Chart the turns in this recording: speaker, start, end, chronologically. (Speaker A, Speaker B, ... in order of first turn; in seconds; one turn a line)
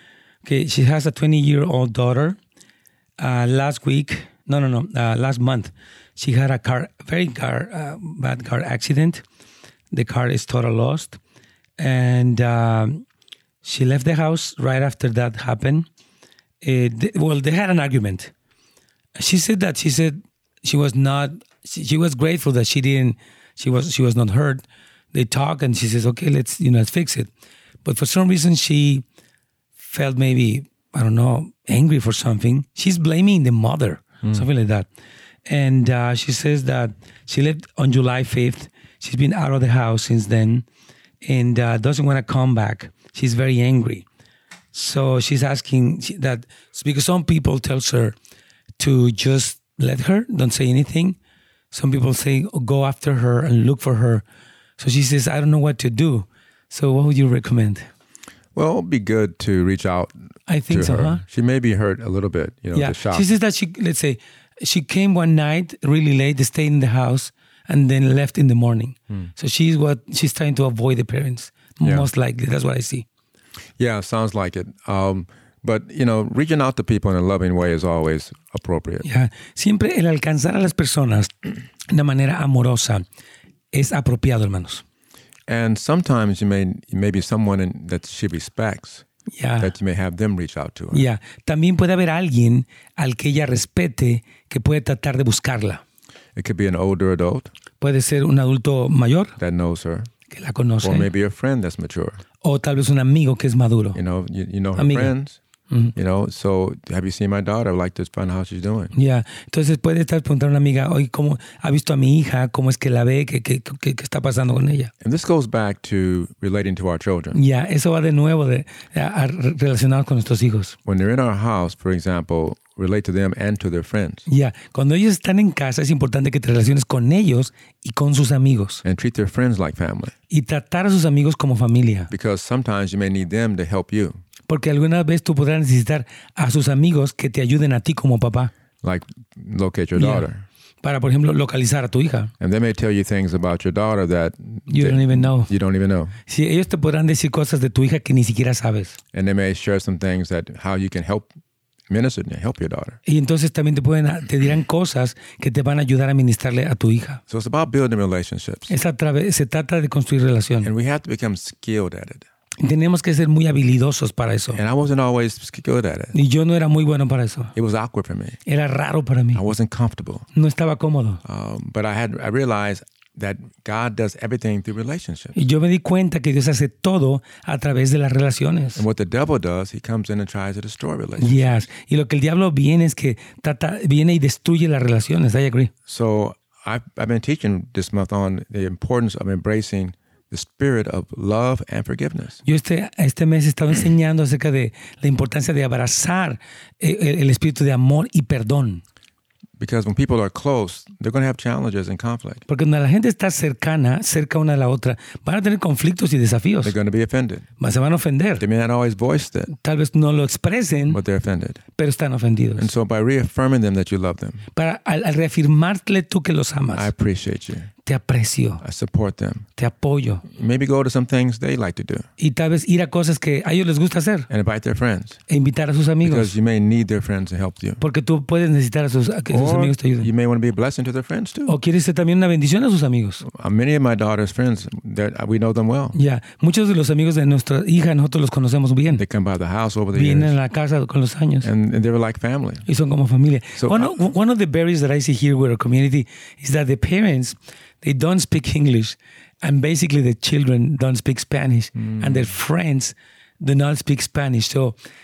Speaker A: 0.5-2.4
Speaker A: 3.2-9.2
Speaker A: 9.9-11.2
Speaker A: 11.8-13.0
Speaker A: 13.6-15.9
Speaker A: 16.6-18.3
Speaker A: 19.1-27.3
Speaker A: 27.8-29.0
Speaker A: 29.8-34.9
Speaker A: 35.5-40.6
Speaker A: 41.2-44.0
Speaker A: 44.7-48.1
Speaker A: 48.8-51.2
Speaker A: 51.7-54.2
Speaker A: 54.8-57.9
Speaker B: 58.5-60.2
Speaker A: 60.5-61.2
Speaker B: 60.7-63.3
Speaker A: 62.8-73.1
Speaker B: 71.8-72.1
Speaker B: 73.8-79.1
Speaker A: 79.0-81.4
Speaker A: 81.9-83.0
Speaker A: 83.7-84.8
Speaker B: 85.5-89.0
Speaker A: 89.3-89.7
Speaker B: 89.6-91.0
Speaker A: 90.9-95.8
Speaker B: 96.4-97.5
Speaker A: 97.8-99.3
Speaker B: 99.4-100.1
Speaker A: 100.3-101.1
Speaker B: 100.8-102.2
Speaker A: 102.4-104.0
Speaker B: 103.9-105.4
Speaker A: 104.8-105.1
Speaker B: 106.0-108.9
Speaker A: 109.0-114.9
Speaker B: 115.0-117.4
Speaker A: 117.3-120.8
Speaker B: 120.9-124.3
Speaker A: 124.3-128.8
Speaker B: 128.8-130.1
Speaker A: 130.3-132.1
Speaker B: 132.1-134.2
Speaker A: 134.5-138.5
Speaker B: 138.8-140.4
Speaker A: 140.0-140.3
Speaker A: 140.8-142.3
Speaker B: 142.4-146.2
Speaker A: 144.7-145.5
Speaker A: 146.3-149.0
Speaker B: 149.1-151.3
Speaker B: 151.9-153.0
Speaker A: 153.1-157.2
Speaker B: 157.3-158.8
Speaker A: 158.7-160.7
Speaker B: 160.6-162.3
Speaker A: 162.6-164.6
Speaker B: 164.5-166.1
Speaker A: 166.1-167.5
Speaker B: 167.6-168.4
Speaker A: 168.5-169.4
Speaker B: 169.3-170.3
Speaker A: 170.3-171.2
Speaker B: 171.2-175.3
Speaker A: 175.3-178.8
Speaker B: 178.8-181.6
Speaker A: 181.2-185.7
Speaker B: 185.9-192.4
Speaker A: 192.4-198.8
Speaker B: 199.6-202.4
Speaker A: 202.5-206.8
Speaker B: 206.6-207.5
Speaker A: 207.6-208.4
Speaker B: 208.4-209.5
Speaker A: 209.6-211.0
Speaker B: 210.9-211.6
Speaker A: 211.8-212.7
Speaker B: 212.6-214.4
Speaker A: 214.6-216.9
Speaker B: 216.7-217.7
Speaker A: 217.8-218.6
Speaker B: 218.6-219.5
Speaker A: 219.6-220.2
Speaker B: 220.3-222.1
Speaker A: 222.2-224.3
Speaker B: 224.3-225.2
Speaker A: 225.3-226.3
Speaker B: 226.0-227.8
Speaker A: 227.8-230.1
Speaker B: 229.3-231.6
Speaker A: 231.5-233.2
Speaker B: 233.2-236.0
Speaker A: 235.9-239.0
Speaker B: 239.0-240.4
Speaker A: 239.9-241.5
Speaker B: 241.4-242.7
Speaker A: 242.7-254.8
Speaker B: 243.6-244.0
Speaker B: 251.8-252.3